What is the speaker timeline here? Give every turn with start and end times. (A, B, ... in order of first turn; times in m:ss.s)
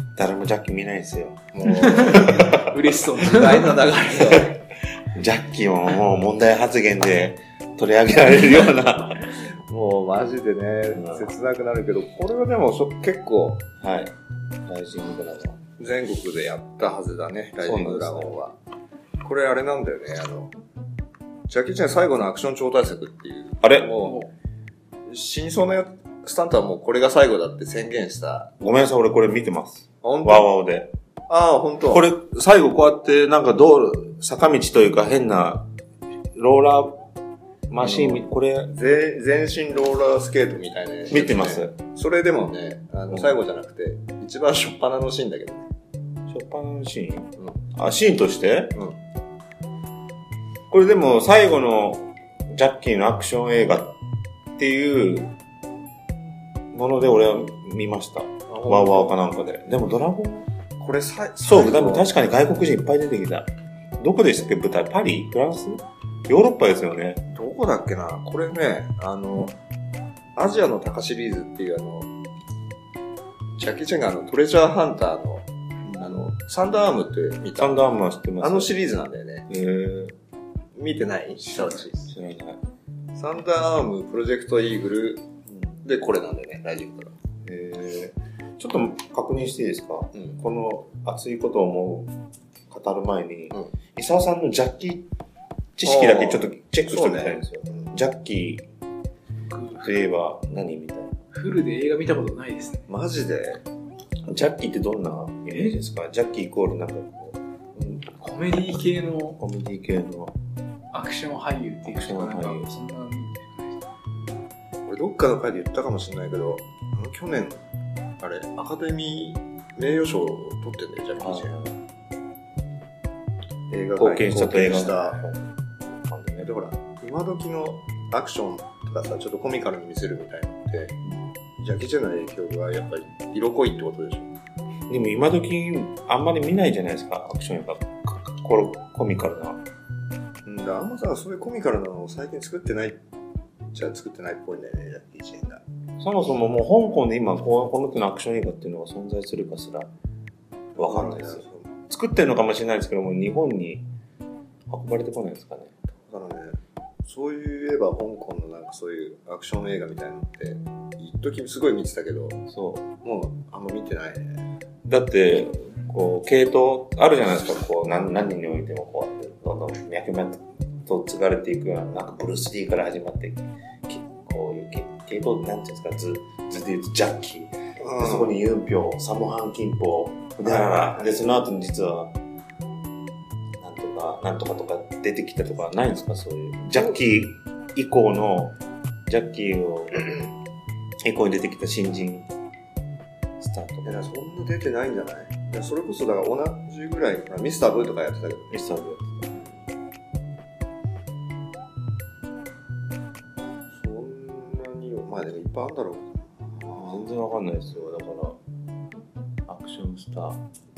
0:00.2-0:02.8 A
0:01.5-0:04.6 B
0:01.9-0:04.1 C
0:05.1-0:09.4 A
0:09.7-0:13.7 B
0:11.0-0:11.3 A
0:13.8-0:14.1 A
0:14.7-0:15.6 A
0:15.6-0:18.6 B
0:17.6-0:18.3 A
0:19.2-0:20.5 B
0:21.5-0:24.2 B
0:23.6-0:23.9 A
0:24.0-0:24.3 C
0:25.1-0:28.5 B
0:28.6-0:30.9 A
0:30.0-0:30.5 B
0:31.3-0:32.1 B
0:31.9-0:35.7 A
0:36.3-0:37.0 A
0:37.7-0:38.7 A
0:37.8-0:45.7 B
0:41.1-0:41.7 A
0:43.1-0:43.4 A
0:46.3-0:48.8 A
0:50.7-0:54.0 A
0:54.6-0:55.4 A
0:56.7-1:00.5 A
0:58.5-0:59.2 B
1:00.8-1:02.1 B
1:01.4-1:07.2 A
1:07.3-1:09.6 B
1:10.4-1:12.1 B
1:13.6-1:15.5 B
1:15.9-1:16.3 A
1:16.0-1:17.9 B
1:17.6-1:18.7 A
1:18.4-1:19.5 B
1:19.5-1:20.2 A
1:20.8-1:22.1 B
1:21.4-1:22.6 A
1:23.2-1:25.3 B
1:25.5-1:25.8 A
1:25.8-1:27.2 B
1:27.4-1:32.1 A
1:32.7-1:35.1 A
1:35.8-1:38.7 A
1:35.8-1:37.9 B
1:39.5-1:40.0 C
1:39.8-1:41.2 A
1:41.3-1:42.9 C
1:42.9-1:43.6 B
1:44.2-1:47.4 A
1:48.0-1:49.4 C
1:49.4-1:50.4 A
1:50.9-1:53.8 C
1:51.8-1:52.7 A
1:54.9-1:57.6 B
1:58.2-2:01.6 B
2:01.2-2:01.7 A
2:03.7-2:05.3 B
2:04.0-2:05.5 A
2:06.0-2:06.5 A
2:06.4-2:11.0 B
2:11.6-2:14.3 B
2:14.9-2:19.6 A
2:20.5-2:23.0 B
2:23.7-2:25.6 B
2:26.0-2:29.9 A
2:30.8-2:31.7 B
2:30.8-2:33.9 A
2:34.7-2:35.7 A
2:36.0-2:42.4 B
2:42.5-2:42.9 A
2:43.0-2:44.4 B
2:44.8-3:02.2 A
2:57.8-2:58.4 B
3:00.5-3:01.0 B
3:03.6-3:10.2 A
3:11.0-3:12.3 A
3:13.4-3:14.1 A
3:13.8-3:18.6 B
3:18.5-3:19.3 A
3:23.7-3:27.0 B
3:26.7-3:28.4 A
3:29.5-3:30.4 A